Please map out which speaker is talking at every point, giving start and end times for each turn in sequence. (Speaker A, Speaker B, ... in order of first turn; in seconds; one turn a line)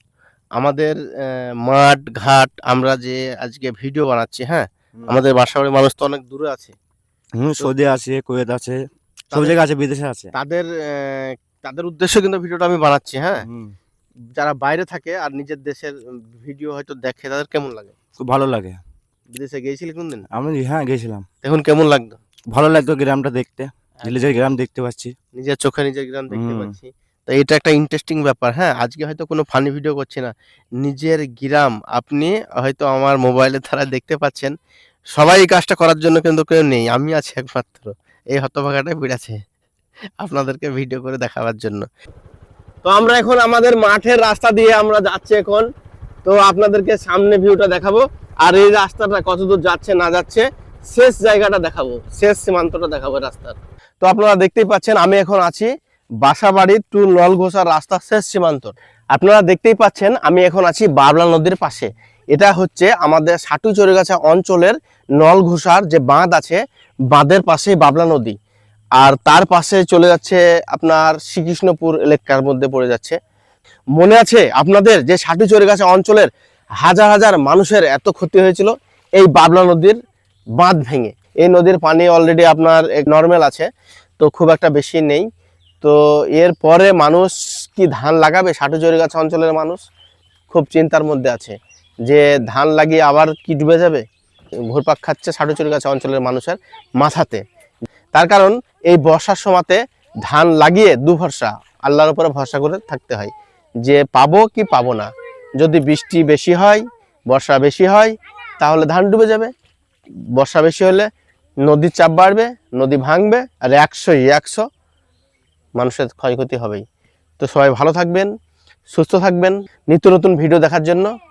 Speaker A: 0.6-6.8
Speaker B: 7.4-10.3
Speaker A: 9.3-9.6
Speaker A: 10.3-13.4
Speaker B: 13.4-13.8
Speaker A: 14.4-17.9
Speaker B: 18.2-18.8
Speaker A: 19.3-20.2
Speaker B: 20.3-21.3
Speaker A: 21.4-22.2
Speaker B: 22.5-25.1
Speaker A: 25.3-34.5
Speaker B: 26.3-26.8
Speaker A: 35.1-39.4
Speaker A: 40.2-41.9
Speaker A: 42.8-45.7
Speaker A: 46.2-55.7
Speaker A: 56.2-68.4
Speaker A: 69.0-73.2
Speaker A: 74.0-76.3
Speaker A: 76.8-80.0
Speaker A: 80.6-83.7
Speaker A: 84.2-85.3
Speaker A: 85.8-89.8
Speaker A: 90.5-91.5
Speaker A: 92.1-94.0
Speaker A: 94.7-97.4
Speaker A: 98.1-109.5
Speaker A: 110.4-111.1
Speaker A: 111.7-114.6
Speaker A: 115.8-116.8
Speaker A: 117.4-118.3
Speaker A: 118.9-121.1